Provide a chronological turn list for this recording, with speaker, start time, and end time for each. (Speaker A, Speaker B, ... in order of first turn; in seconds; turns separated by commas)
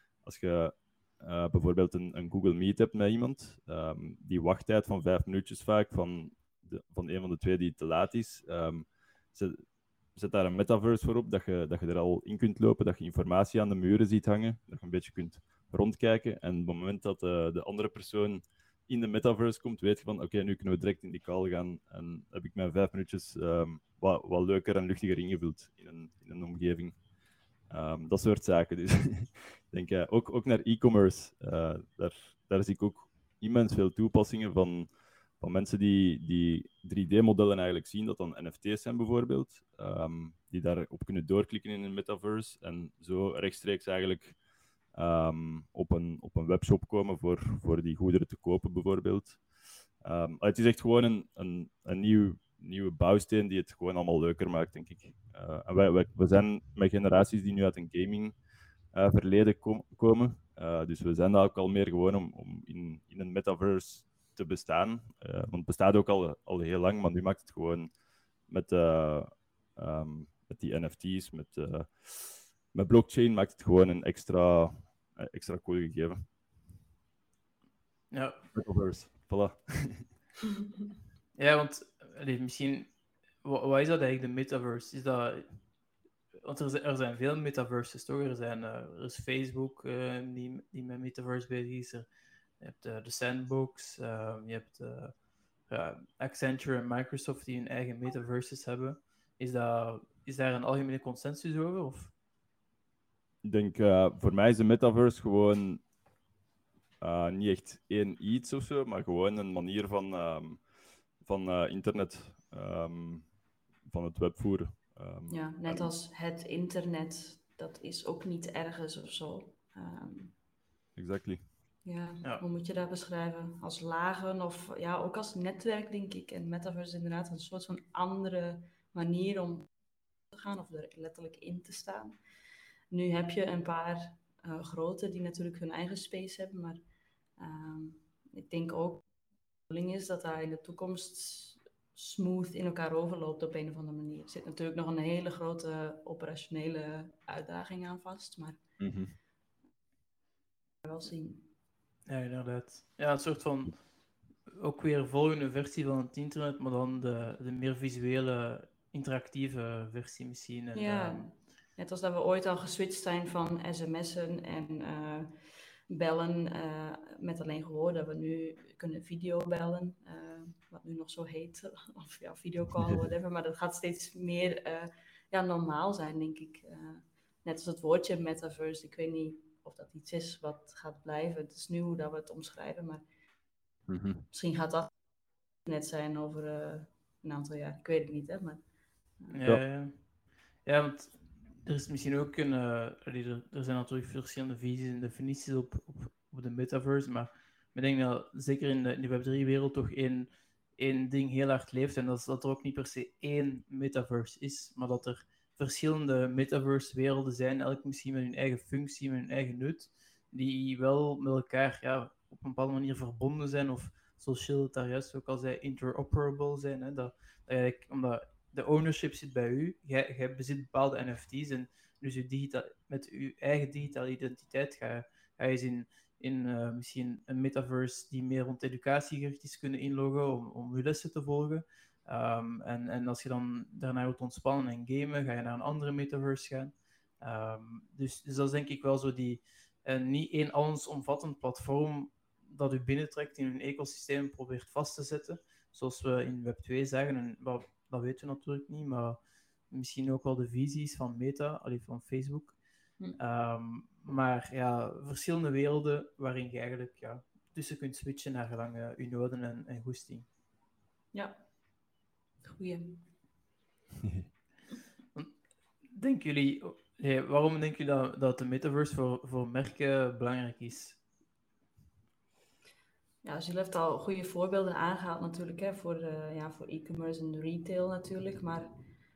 Speaker A: 0.2-9.6, Speaker A: 10.1-27.0, Speaker A: 27.7-44.4, Speaker A: 44.9-49.4, Speaker A: 50.0-58.4, Speaker A: 58.9-67.9, Speaker A: 68.5-76.2, Speaker B: 78.1-78.4, Speaker A: 78.5-80.2, Speaker B: 81.3-85.7, Speaker B: 86.4-92.0, Speaker B: 92.6-102.1, Speaker A: 103.4-105.8, Speaker A: 107.0-110.6, Speaker A: 111.2-113.3, Speaker A: 113.8-115.9, Speaker C: 115.3-120.3, Speaker A: 120.9-121.5, Speaker C: 121.8-129.7, Speaker C: 130.3-132.2, Speaker C: 132.9-136.8, Speaker C: 137.4-139.1, Speaker C: 139.7-148.6, Speaker A: 148.8-149.1, Speaker C: 150.8-151.5, Speaker B: 152.1-161.3, Speaker C: 160.7-183.0, Speaker A: 183.9-184.2, Speaker C: 184.3-184.9, Speaker C: 185.6-188.6, Speaker B: 189.3-249.2, Speaker B: 249.7-252.6, Speaker B: 253.2-260.2, Speaker C: 261.1-261.7, Speaker C: 262.4-263.0, Speaker B: 265.9-271.0, Speaker C: 273.2-278.7